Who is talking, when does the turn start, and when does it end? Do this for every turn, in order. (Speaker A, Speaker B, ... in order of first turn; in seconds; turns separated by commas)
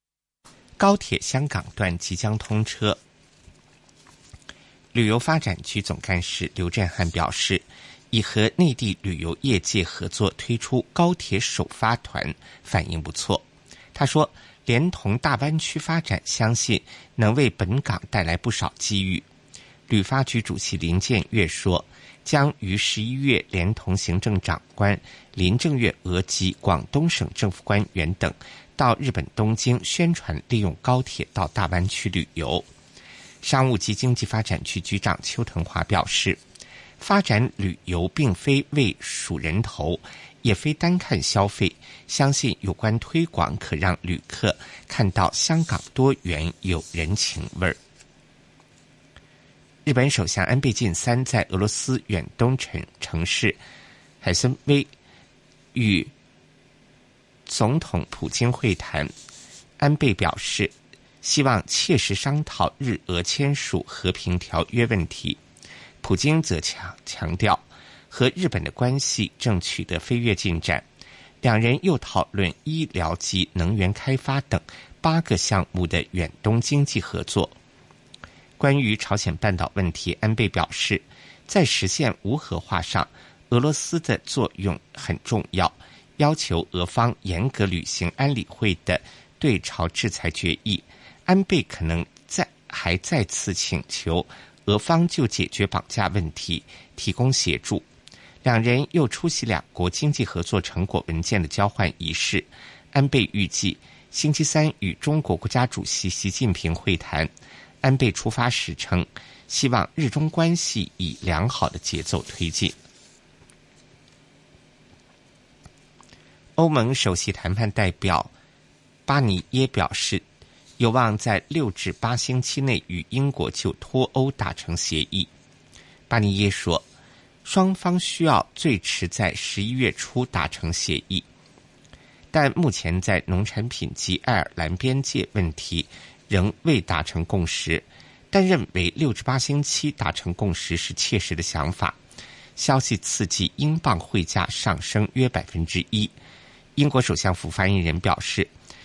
Speaker A: 0.8-3.0, Speaker A: 4.9-13.4, Speaker A: 13.9-19.2, Speaker A: 19.9-32.6, Speaker A: 33.4-36.4, Speaker A: 37.0-47.8, Speaker A: 49.8-53.6, Speaker A: 54.2-54.9, Speaker A: 55.7-56.1, Speaker A: 57.5-59.1, Speaker A: 59.8-65.4, Speaker A: 66.0-70.8, Speaker A: 71.4-77.5, Speaker A: 78.6-97.8, Speaker A: 98.4-107.3, Speaker A: 107.8-112.8, Speaker A: 116.6-118.3, Speaker A: 119.0-120.2, Speaker A: 120.8-125.3, Speaker A: 126.1-126.8, Speaker A: 127.4-131.2, Speaker A: 132.3-142.0, Speaker A: 142.6-146.1, Speaker A: 146.8-148.5